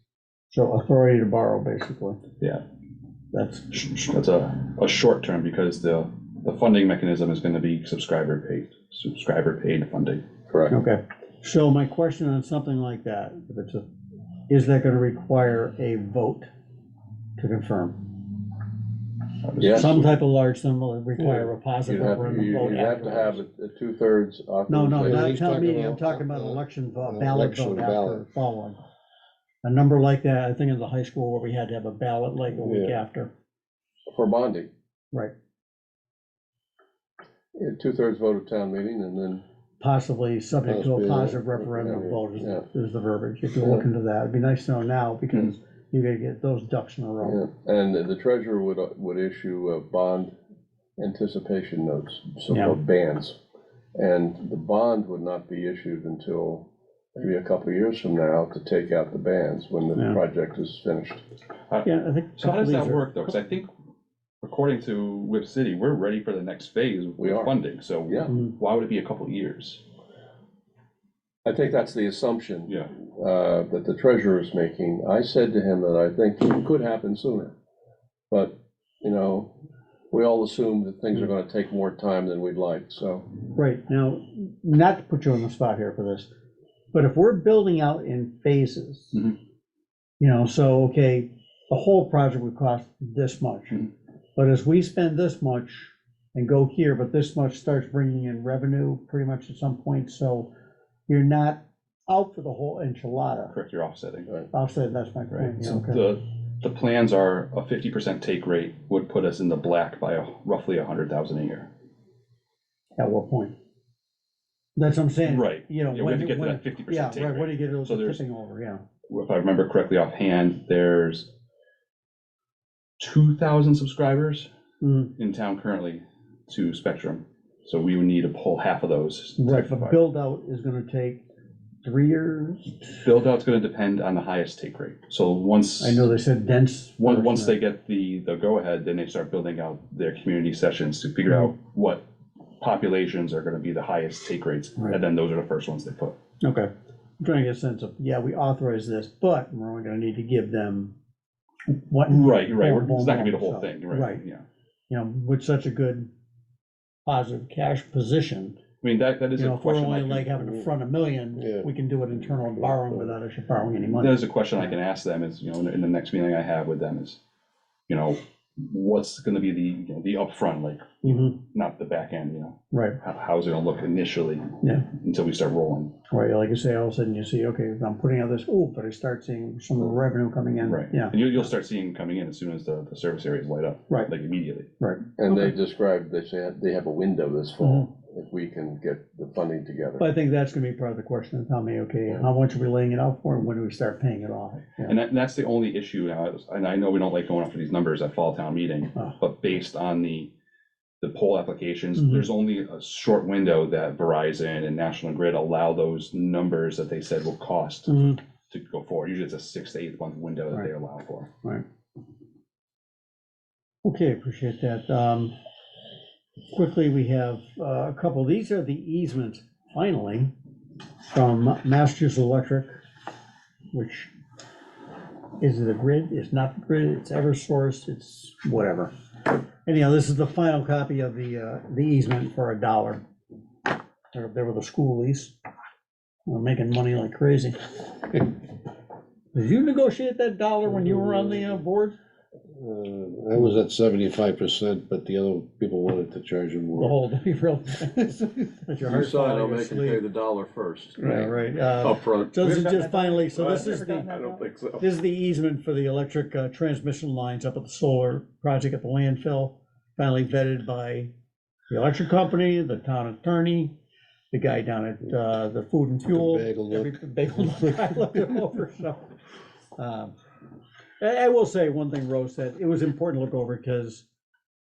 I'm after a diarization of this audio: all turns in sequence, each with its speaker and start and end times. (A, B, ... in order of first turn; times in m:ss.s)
0:00.5-0:02.2 A
0:03.3-0:03.7 A
0:03.7-0:10.2 B
0:10.5-0:10.7 C
0:10.7-0:13.8 A
0:14.5-0:16.5 A
0:17.4-0:18.1 A
0:19.4-0:20.0 B
0:19.6-0:19.9 C
0:19.7-0:23.4 A
0:21.2-0:25.4 C
0:24.7-0:28.8 A
0:25.0-0:28.2 D
0:29.6-0:33.3 A
0:32.6-0:33.0 D
0:34.1-0:34.7 C
0:37.5-0:39.4 C
0:39.8-0:47.4 A
0:40.6-0:42.2 D
0:41.7-0:42.6 C
0:47.2-0:50.3 C
0:51.0-0:53.4 C
0:52.5-0:52.8 A
0:53.9-1:01.2 C
1:01.7-1:03.7 B
1:01.8-1:03.2 A
1:04.4-1:09.8 B
1:07.2-1:07.5 C
1:11.4-1:17.5 C
1:12.7-1:12.9 B
1:18.3-1:19.5 C
1:20.1-1:23.2 C
1:23.5-1:26.3 A
1:26.9-1:29.3 A
1:30.2-1:33.8 A
1:34.4-1:40.5 A
1:41.1-1:43.5 A
1:43.5-1:44.3 B
1:44.5-1:46.0 A
1:45.3-1:51.7 B
1:53.0-1:53.5 A
1:54.8-1:58.8 A
1:55.2-1:58.2 B
1:59.1-2:01.3 B
2:03.0-2:04.5 B
2:04.8-2:05.1 A
2:05.2-2:10.0 B
2:09.4-2:11.2 A
2:11.8-2:12.9 A
2:13.0-2:16.0 B
2:15.8-2:17.6 A
2:17.0-2:22.0 B
2:22.6-2:26.2 B
2:26.4-2:30.9 A
2:31.7-2:34.2 A
2:32.1-2:34.4 B
2:34.9-2:36.1 A
2:37.0-2:38.6 A
2:38.8-2:40.4 B
2:39.4-2:44.2 A
2:41.4-2:41.7 D
2:42.4-2:43.0 D
2:44.0-2:47.2 B
2:47.9-2:55.9 B
2:51.0-2:51.4 A
2:52.7-2:53.0 A
2:54.6-2:54.9 A
2:56.1-3:01.3 A
3:00.6-3:04.7 B
3:04.8-3:05.1 A
3:05.2-3:10.0 C
3:07.6-3:07.9 A
3:10.0-3:14.9 A
3:14.9-3:20.3 B
3:21.0-3:31.3 B
3:22.0-3:22.2 A
3:27.9-3:28.2 A
3:33.8-3:35.3 A
3:36.5-3:40.3 A
3:41.1-3:42.8 A
3:43.7-3:44.1 A
3:45.4-3:48.9 A
3:49.6-3:53.0 A
3:54.1-3:55.3 A
3:56.3-3:58.3 A
3:59.3-4:02.0 A
4:02.5-4:07.0 D
4:06.8-4:10.0 A
4:08.8-4:14.8 C
4:11.0-4:14.1 A
4:14.8-4:21.1 A
4:21.7-4:23.7 A
4:24.3-4:29.1 A
4:26.1-4:26.9 D
4:29.8-4:30.1 A
4:31.0-4:34.0 A